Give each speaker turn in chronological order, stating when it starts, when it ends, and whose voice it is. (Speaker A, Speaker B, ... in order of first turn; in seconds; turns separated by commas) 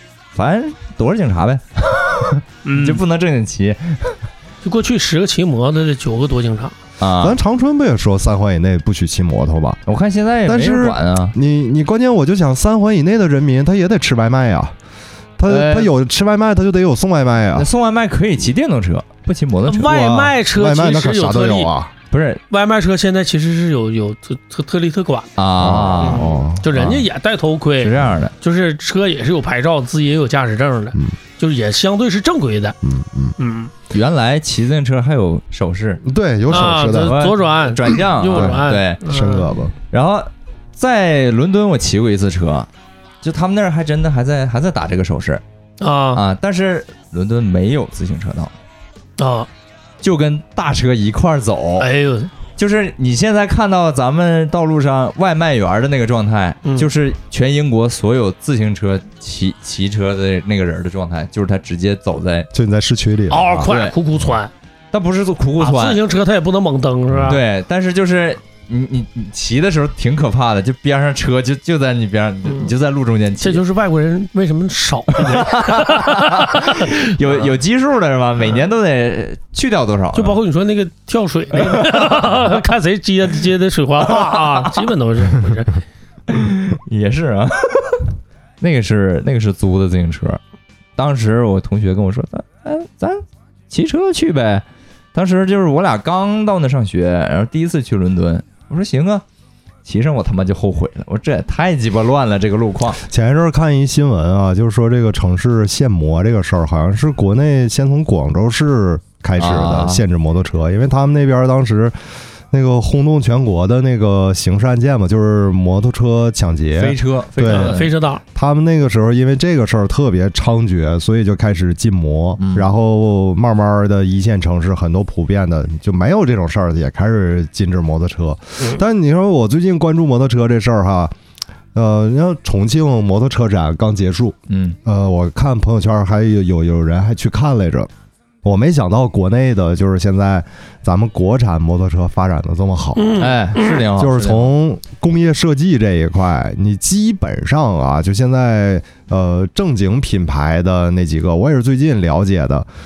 Speaker A: 0.3-4.2, Speaker B: 2.6-3.0, Speaker B: 4.6-6.8, Speaker A: 7.0-7.4, Speaker C: 7.2-9.8, Speaker A: 9.9-11.3, Speaker C: 10.5-14.8, Speaker C: 15.4-17.7, Speaker A: 15.5-15.9, Speaker A: 17.6-20.1, Speaker B: 19.7-21.7, Speaker C: 19.9-21.9, Speaker A: 22.1-22.4, Speaker B: 22.5-25.3, Speaker A: 25.4-26.4, Speaker C: 25.6-27.0, Speaker B: 26.0-32.8, Speaker A: 27.8-28.3, Speaker C: 32.8-33.4, Speaker B: 33.4-33.7, Speaker A: 33.9-36.0, Speaker C: 36.0-37.2, Speaker B: 36.5-39.5, Speaker A: 37.0-39.0, Speaker C: 38.3-39.8, Speaker A: 39.9-42.7, Speaker A: 43.2-45.4, Speaker B: 45.8-46.2, Speaker A: 46.1-48.5, Speaker B: 49.2-49.5, Speaker A: 50.0-51.9, Speaker B: 51.8-52.3, Speaker A: 52.6-62.5, Speaker C: 62.5-63.7, Speaker B: 63.3-64.5, Speaker A: 63.6-63.9, Speaker A: 64.9-66.0, Speaker B: 65.6-67.4, Speaker C: 67.1-67.4, Speaker A: 67.3-73.6, Speaker B: 73.4-77.5, Speaker A: 75.1-80.4, Speaker B: 80.2-85.8, Speaker A: 84.3-84.7, Speaker A: 86.3-88.1, Speaker A: 88.6-90.4, Speaker A: 91.0-99.2, Speaker A: 99.8-103.0, Speaker C: 103.0-112.0, Speaker A: 109.4-110.0, Speaker C: 112.5-117.8, Speaker A: 116.8-117.9, Speaker B: 117.4-118.2, Speaker C: 118.3-131.1, Speaker A: 122.4-122.7, Speaker C: 131.7-137.9, Speaker A: 134.5-134.8, Speaker C: 138.4-143.3, Speaker B: 143.0-143.8, Speaker A: 143.2-144.5, Speaker C: 143.9-152.7